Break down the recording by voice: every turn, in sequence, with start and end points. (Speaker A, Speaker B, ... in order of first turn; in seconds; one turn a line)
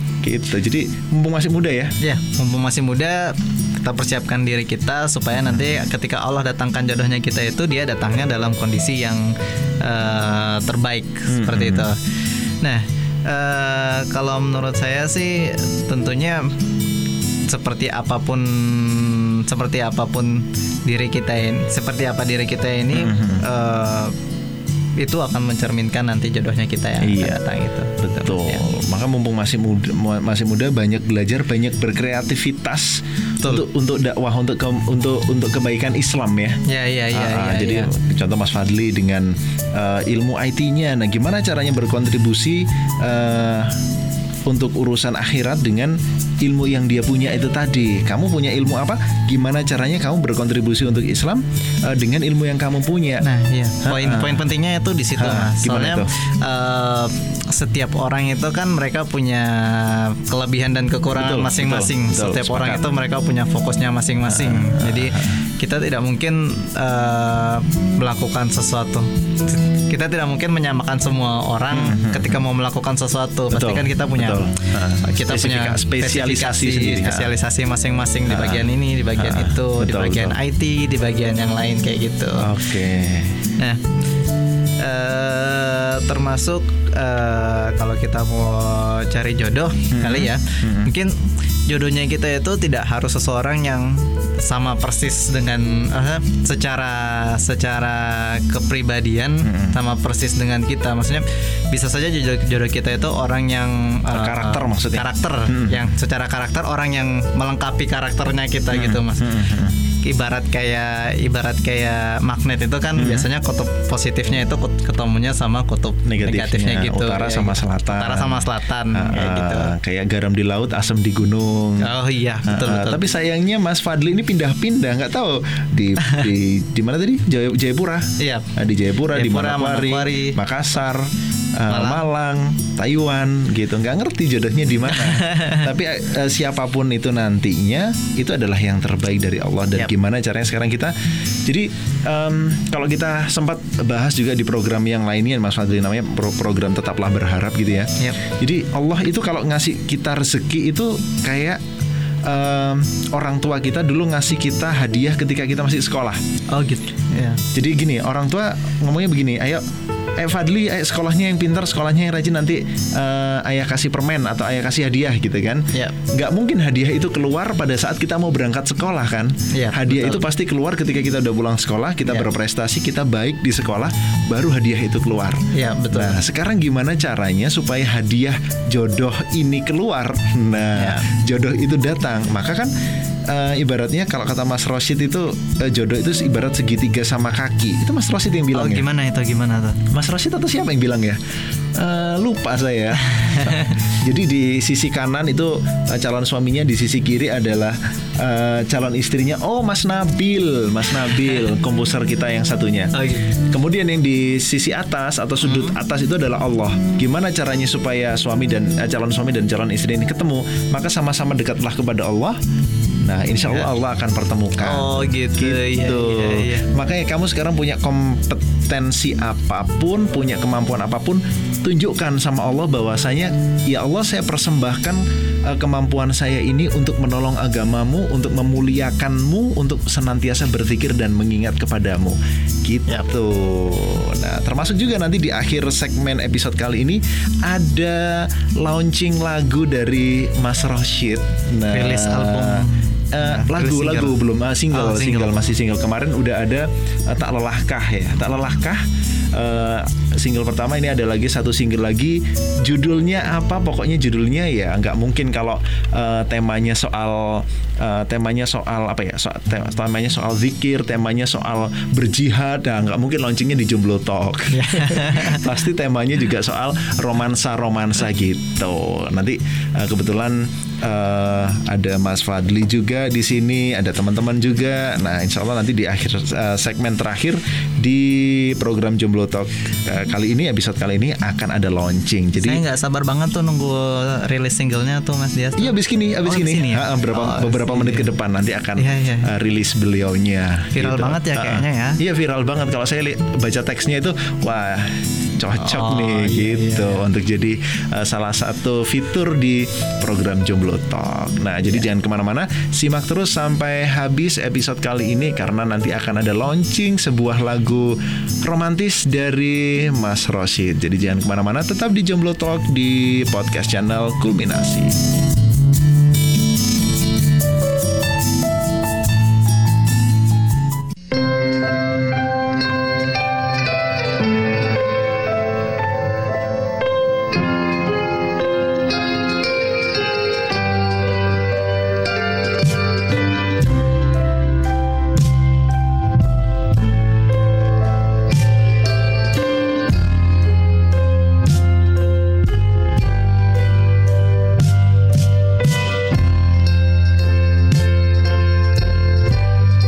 Speaker A: 0.2-1.9
Speaker B: 2.0-16.4
Speaker A: 11.3-11.9
Speaker B: 17.5-24.1
Speaker A: 22.9-23.4
Speaker B: 25.0-28.6
Speaker A: 27.0-27.4
Speaker A: 28.0-36.6
Speaker B: 36.7-37.9
Speaker A: 37.1-43.8
Speaker A: 44.5-53.2
Speaker B: 53.2-74.5
Speaker A: 53.8-54.4
Speaker A: 55.2-56.1
Speaker A: 61.1-62.9
Speaker A: 64.2-65.4
Speaker A: 71.7-72.4
Speaker A: 73.5-77.3
Speaker B: 75.0-82.5
Speaker A: 78.3-80.4
Speaker A: 82.4-83.4
Speaker B: 84.8-91.1
Speaker A: 89.9-90.9
Speaker B: 91.7-109.5
Speaker A: 99.4-99.8
Speaker A: 104.1-105.9
Speaker A: 108.7-109.8
Speaker B: 110.0-119.7
Speaker A: 113.0-113.3
Speaker A: 116.0-121.9
Speaker B: 121.8-123.0
Speaker A: 122.5-151.6
Speaker B: 128.2-128.5
Speaker B: 129.1-130.4
Speaker B: 131.7-132.0
Speaker B: 134.9-135.7
Speaker A: 152.2-156.2
Speaker B: 156.5-157.4
Speaker A: 157.5-159.6
Speaker A: 160.2-182.7
Speaker B: 169.5-170.2
Speaker B: 175.5-176.2
Speaker B: 180.7-181.1
Speaker A: 183.3-188.9
Speaker B: 188.5-189.8
Speaker A: 189.9-191.2
Speaker A: 191.8-212.4
Speaker B: 193.0-193.8
Speaker B: 202.9-203.3
Speaker B: 205.4-205.8
Speaker A: 213.0-282.6
Speaker B: 214.6-216.7
Speaker B: 241.7-244.2
Speaker B: 244.7-245.5
Speaker B: 264.5-265.4
Speaker B: 282.4-288.1
Speaker A: 285.6-315.0
Speaker B: 288.8-289.3
Speaker B: 290.7-292.0
Speaker B: 295.5-297.0